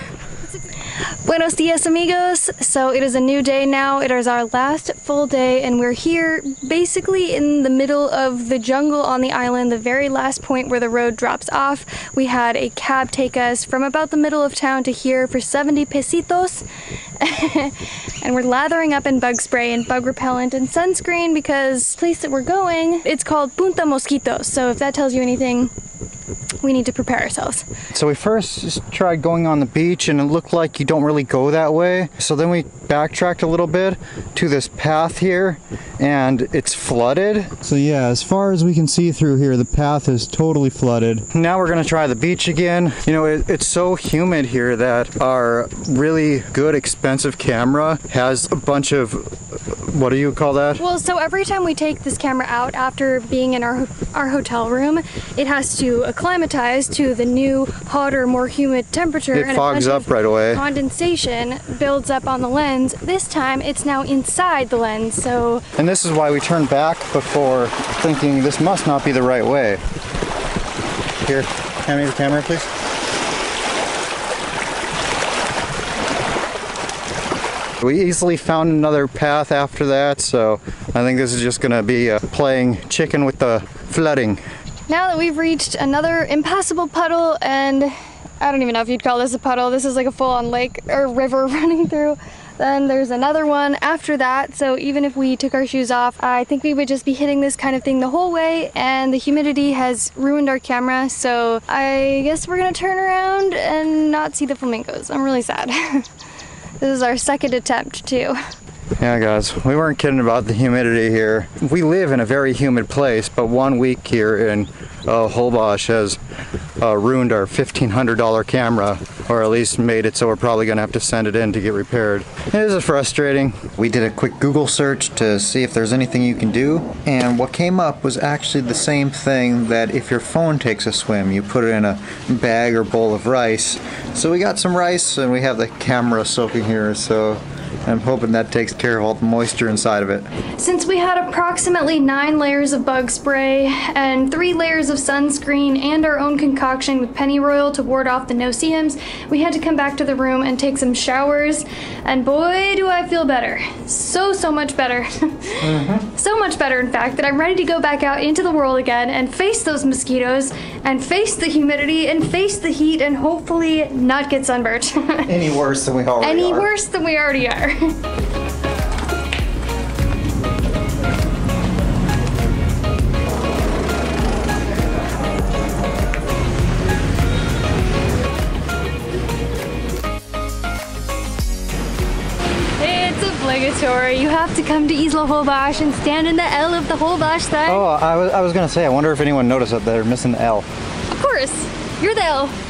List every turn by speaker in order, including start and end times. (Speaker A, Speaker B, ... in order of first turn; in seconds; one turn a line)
Speaker A: 1.2-16.7
Speaker A: 17.2-25.7
Speaker A: 26.6-27.7
Speaker B: 27.9-50.8
Speaker A: 50.8-65.7
Speaker B: 59.3-60.6
Speaker B: 65.8-69.8
Speaker B: 71.2-72.7
Speaker B: 77.8-84.4
Speaker A: 84.9-106.1
Speaker A: 106.8-108.4
Speaker B: 109.0-116.2
Speaker B: 116.8-140.3
Speaker A: 140.6-165.3
Speaker B: 155.6-156.1
Speaker B: 165.3-166.7
Speaker A: 166.2-167.9
Speaker A: 182.8-187.9
Speaker B: 187.7-190.7
Speaker A: 191.1-192.6